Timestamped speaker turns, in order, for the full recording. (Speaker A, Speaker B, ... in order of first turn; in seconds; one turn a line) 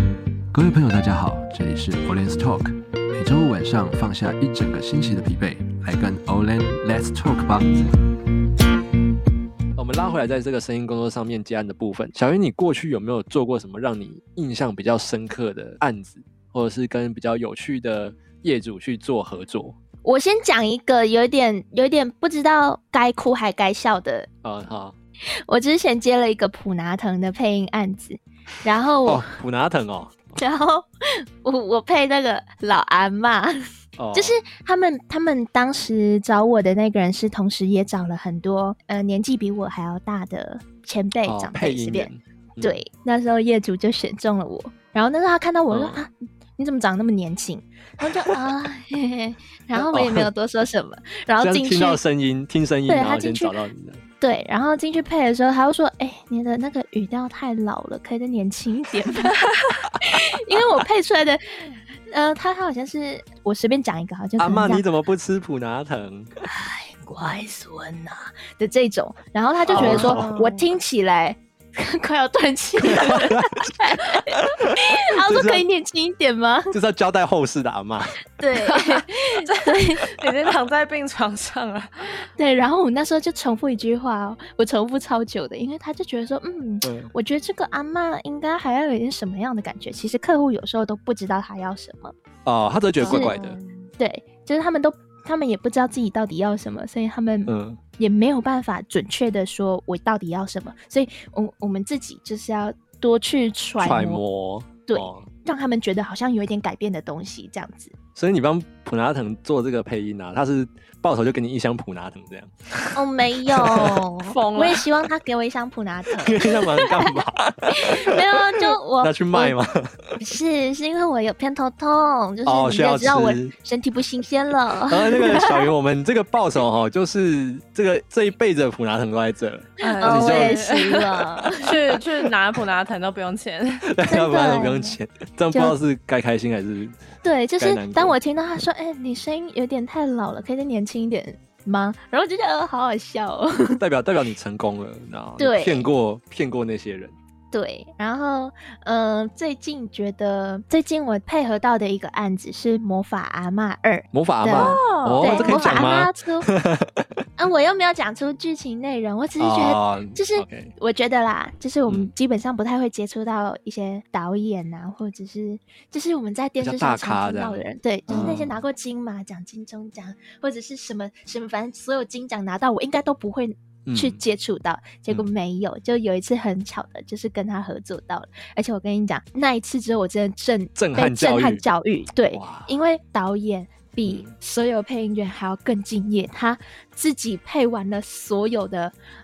Speaker A: 0.5-7.7
Speaker A: 9.7-19.8
Speaker B: 20.0-24.3
Speaker A: 24.4-24.9
Speaker B: 25.4-29.2
Speaker A: 29.0-30.4
Speaker B: 30.3-33.5
Speaker A: 34.0-34.4
Speaker B: 34.1-52.0
Speaker A: 41.3-42.8
Speaker A: 45.7-46.0
Speaker A: 49.7-50.3
Speaker A: 51.4-54.0
Speaker B: 52.9-53.5
Speaker B: 54.2-59.4
Speaker B: 60.0-64.9
Speaker A: 64.4-66.3
Speaker B: 66.4-76.7
Speaker A: 69.6-70.2
Speaker C: 69.7-70.6
Speaker A: 73.0-73.4
Speaker A: 75.2-75.7
Speaker A: 76.7-78.2
Speaker B: 78.4-80.0
Speaker C: 78.5-82.3
Speaker B: 82.3-92.1
Speaker A: 86.8-87.1
Speaker A: 92.5-93.6
Speaker B: 93.0-93.3
Speaker C: 93.0-93.9
Speaker B: 94.0-104.2
Speaker A: 97.5-97.8
Speaker A: 103.8-105.3
Speaker B: 104.9-107.9
Speaker A: 108.2-112.5
Speaker B: 112.9-117.1
Speaker C: 113.8-114.8
Speaker A: 116.2-118.2
Speaker B: 117.7-119.6
Speaker A: 119.0-120.1
Speaker B: 120.2-125.7
Speaker A: 122.4-123.5
Speaker A: 124.9-130.6
Speaker C: 129.8-133.8
Speaker B: 130.0-131.7
Speaker A: 133.8-137.0
Speaker B: 134.1-135.0
Speaker B: 137.2-143.8
Speaker A: 137.6-138.2
Speaker A: 143.8-147.1
Speaker B: 145.4-145.9
Speaker B: 147.5-156.5
Speaker A: 154.1-157.1
Speaker C: 154.5-155.9
Speaker B: 157.4-188.9
Speaker A: 159.4-160.7
Speaker A: 166.6-168.6
Speaker C: 168.1-168.3
Speaker A: 173.8-174.2
Speaker A: 180.8-181.6
Speaker A: 182.3-182.7
Speaker A: 184.1-184.3